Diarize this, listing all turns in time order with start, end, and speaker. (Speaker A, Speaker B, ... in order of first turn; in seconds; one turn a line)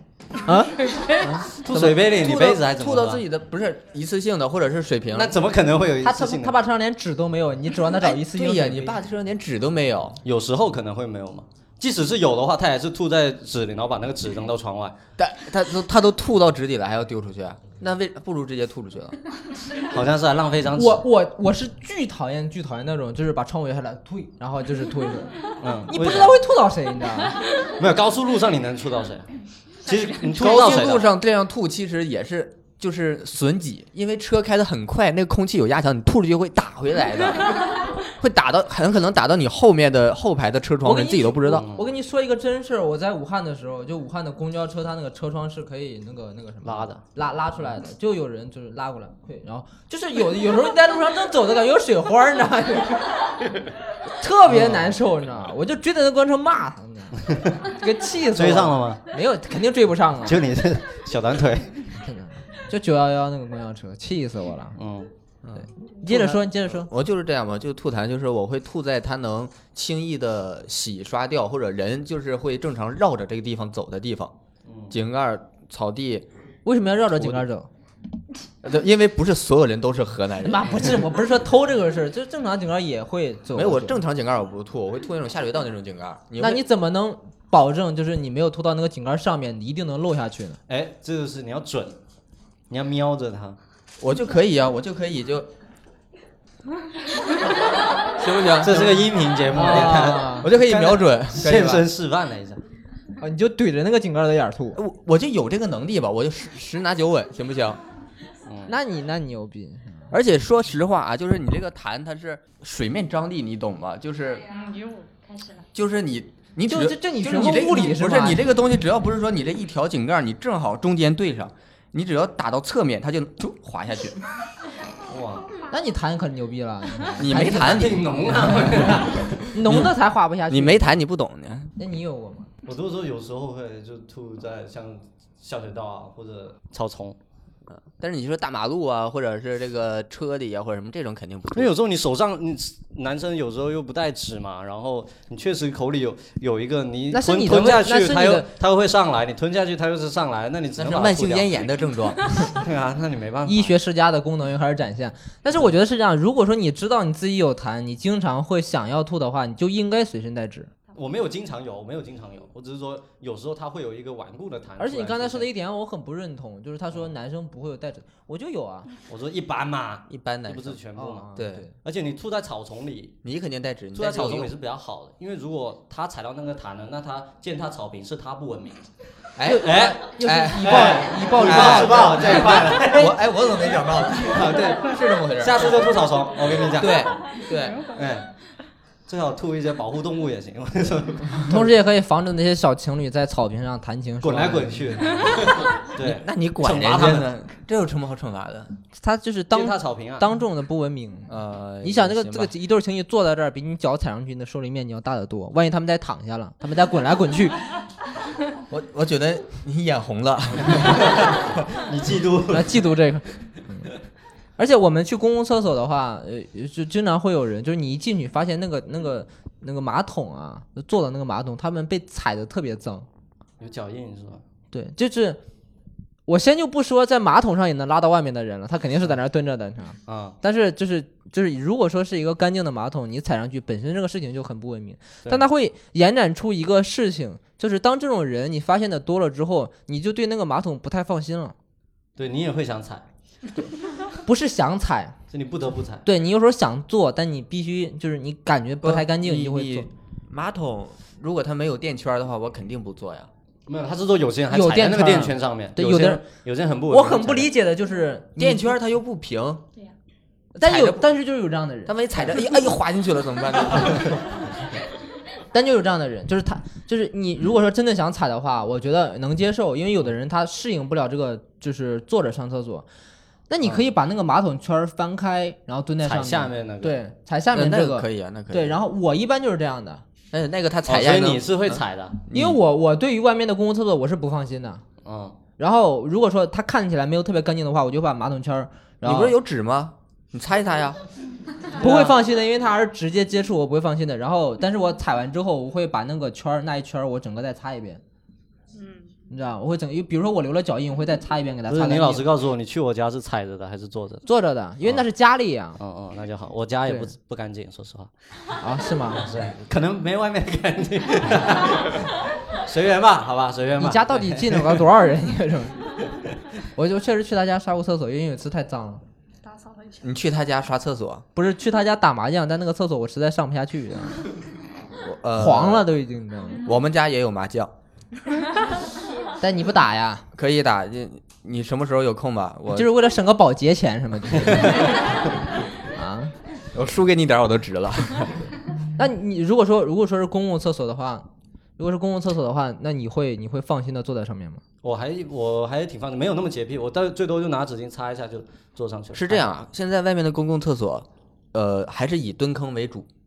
Speaker A: 0.5-0.8
Speaker B: 1.2-5.4
Speaker C: 1.5-3.2
Speaker C: 5.1-6.5
Speaker A: 6.0-9.0
Speaker B: 7.9-10.2
Speaker C: 10.2-14.9
Speaker B: 15.2-19.2
Speaker C: 19.8-21.0
Speaker A: 20.8-25.3
Speaker C: 25.6-26.4
Speaker A: 25.9-27.4
Speaker C: 27.8-29.3
Speaker C: 29.9-31.1
Speaker B: 30.3-41.7
Speaker A: 40.8-53.4
Speaker C: 41.5-41.9
Speaker C: 46.6-47.0
Speaker A: 54.1-60.4
Speaker C: 54.5-55.0
Speaker C: 58.4-59.0
Speaker C: 60.2-61.8
Speaker A: 62.0-64.8
Speaker C: 64.8-65.1
Speaker B: 65.4-74.3
Speaker A: 65.6-66.9
Speaker C: 74.7-75.0
Speaker B: 74.9-76.3
Speaker A: 76.7-77.7
Speaker B: 78.6-80.9
Speaker A: 80.4-84.0
Speaker B: 83.5-86.6
Speaker A: 86.4-90.6
Speaker C: 90.7-92.0
Speaker C: 92.7-93.6
Speaker B: 94.0-95.5
Speaker B: 98.2-99.1
Speaker C: 98.6-102.6
Speaker A: 99.5-100.5
Speaker B: 99.9-101.9
Speaker A: 103.2-104.8
Speaker B: 104.8-107.8
Speaker C: 108.5-108.7
Speaker A: 108.7-110.1
Speaker B: 110.1-114.5
Speaker D: 114.5-115.7
Speaker B: 115.7-124.2
Speaker A: 116.7-118.5
Speaker C: 125.1-125.5
Speaker A: 125.7-128.0
Speaker B: 127.2-128.1
Speaker C: 127.3-129.5
Speaker A: 129.5-131.0
Speaker B: 129.7-129.9
Speaker B: 130.5-131.7
Speaker A: 131.8-132.5
Speaker C: 132.7-137.2
Speaker B: 137.8-141.7
Speaker C: 141.5-151.7
Speaker A: 147.1-148.5
Speaker B: 150.8-152.2
Speaker C: 152.4-153.7
Speaker A: 153.5-160.7
Speaker C: 160.9-165.5
Speaker A: 164.8-168.9
Speaker C: 169.1-171.3
Speaker B: 170.1-170.8
Speaker A: 171.0-171.7
Speaker B: 171.4-171.7
Speaker C: 171.8-173.2
Speaker B: 173.2-174.5
Speaker C: 173.9-178.8
Speaker B: 179.4-186.0
Speaker A: 179.4-182.8
Speaker C: 179.6-180.0
Speaker C: 180.6-183.2
Speaker C: 184.4-184.8
Speaker C: 185.4-187.1
Speaker B: 186.7-187.8
Speaker D: 187.4-188.2
Speaker C: 187.9-188.3
Speaker C: 189.1-191.6
Speaker A: 191.4-195.0
Speaker C: 194.2-197.3
Speaker B: 196.0-198.7
Speaker A: 199.0-207.6
Speaker C: 199.5-200.3
Speaker B: 201.3-202.5
Speaker B: 208.7-211.6
Speaker C: 210.8-212.8
Speaker A: 212.5-213.9
Speaker A: 214.6-223.1
Speaker C: 223.6-224.4
Speaker A: 224.7-225.4
Speaker A: 226.3-241.6
Speaker C: 230.1-230.4
Speaker C: 242.2-243.1
Speaker A: 244.2-245.2
Speaker C: 245.3-246.1
Speaker A: 246.1-249.9
Speaker B: 248.8-253.3
Speaker C: 253.7-257.5
Speaker A: 254.5-256.2
Speaker A: 256.9-258.8
Speaker B: 258.4-259.6
Speaker A: 260.6-262.0
Speaker B: 260.6-261.1
Speaker B: 261.9-264.4
Speaker A: 265.5-272.9
Speaker A: 273.5-280.0
Speaker C: 276.0-277.0
Speaker B: 277.5-278.8
Speaker B: 280.3-282.6
Speaker C: 280.9-282.2
Speaker A: 282.3-284.8
Speaker C: 285.1-285.4
Speaker A: 285.6-289.4
Speaker B: 289.0-291.0
Speaker A: 291.8-298.0
Speaker C: 291.8-292.1
Speaker D: 298.7-299.1
Speaker A: 299.3-302.2
Speaker C: 301.7-304.2
Speaker A: 304.3-305.8
Speaker C: 305.8-308.1
Speaker A: 306.9-307.1
Speaker A: 308.6-309.3
Speaker C: 309.2-314.9
Speaker A: 313.8-315.8
Speaker A: 316.8-319.0
Speaker D: 319.4-320.2
Speaker B: 320.0-321.2
Speaker A: 321.4-324.2
Speaker B: 325.0-325.9
Speaker A: 325.4-326.6
Speaker B: 326.6-327.7
Speaker A: 329.4-330.3
Speaker B: 330.3-332.9
Speaker A: 332.7-335.0
Speaker A: 335.9-336.3
Speaker B: 336.7-338.4
Speaker A: 339.0-341.3
Speaker A: 341.8-344.6
Speaker C: 344.8-349.5
Speaker B: 349.1-353.1